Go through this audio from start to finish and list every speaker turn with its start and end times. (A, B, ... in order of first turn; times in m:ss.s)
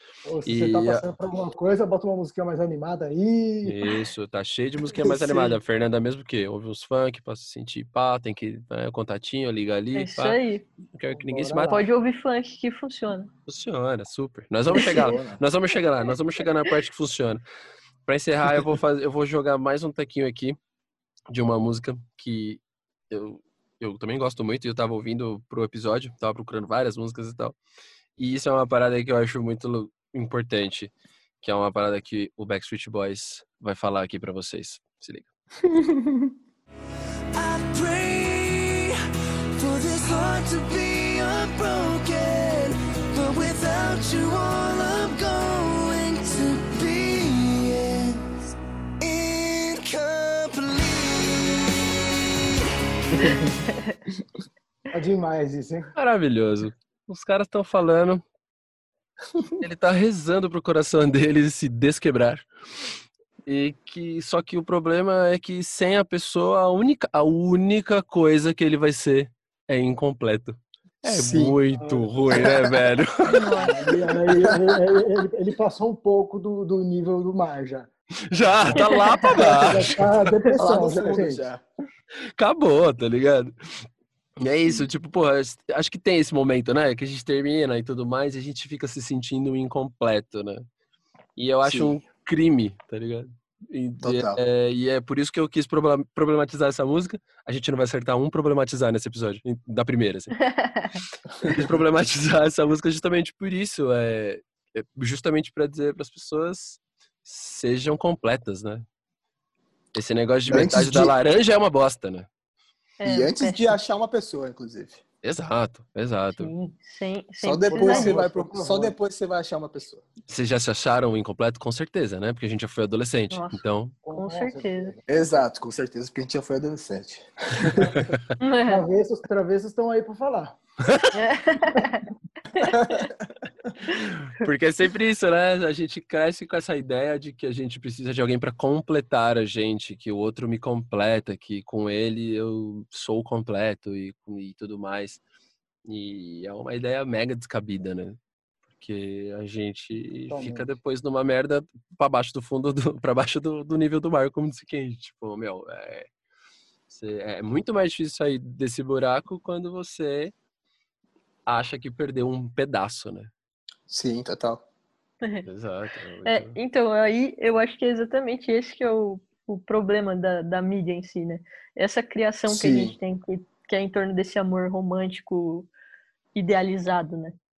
0:00.3-0:03.8 A
0:00.4-0:01.0 B
0:03.6-0:10.4 B
0:05.0-0:05.5 A
0:10.0-0:10.6 C
0:10.9-0:11.8 B
0:11.1-0:11.9 A
0:11.7-0:13.3 C
0:13.5-0:17.4 B
0:14.8-0:15.4 D
0:18.1-0:20.6 B
0:21.3-0:27.6 B
0:28.2-0:30.9 B
0:31.4-0:35.3 B
0:35.8-0:36.1 D
0:37.4-0:38.9 E
0:39.6-0:48.4 E
0:49.0-0:52.0 E
0:54.9-0:55.9 A
0:56.0-0:58.2 B
0:59.6-1:02.5 B
1:03.5-1:13.5 B
1:11.0-1:11.6 D
1:11.8-1:12.4 A
1:12.3-1:12.7 D
1:13.3-1:13.7 C
1:13.4-1:17.9 A
1:14.4-1:14.8 D
1:18.3-1:20.4 B
1:18.8-1:19.3 C
1:19.3-1:21.4 A
1:20.6-1:21.6 D
1:22.4-1:23.5 B
1:24.4-1:30.6 B
1:31.4-1:40.4 B
1:31.6-1:32.0 D
1:34.0-1:34.4 D
1:40.5-1:41.0 C
1:41.5-1:48.8 B
1:49.9-1:52.3 B
1:50.5-1:51.1 D
1:53.0-1:53.8 C
1:53.0-1:55.0 D
1:55.2-1:56.5 B
1:56.3-1:58.2 C
1:57.4-2:00.0 D
1:57.7-1:59.0 A
2:00.3-2:04.0 B
2:03.3-2:03.6 C
2:04.0-2:05.0 A
2:04.2-2:05.0 C
2:05.1-2:08.0 D
2:08.4-2:08.8 C
2:08.7-2:10.6 A
2:11.1-2:13.0 C
2:12.7-2:13.2 D
2:13.9-2:14.4 C
2:14.0-2:25.2 B
2:25.9-2:28.2 B
2:28.7-2:36.1 B
2:30.3-2:30.7 A
2:36.9-2:40.3 B
2:41.5-2:43.3 B
2:43.9-2:44.6 D
2:45.4-2:46.6 B
2:46.2-2:55.7 C
2:52.5-2:52.9 D
2:56.4-2:57.4 C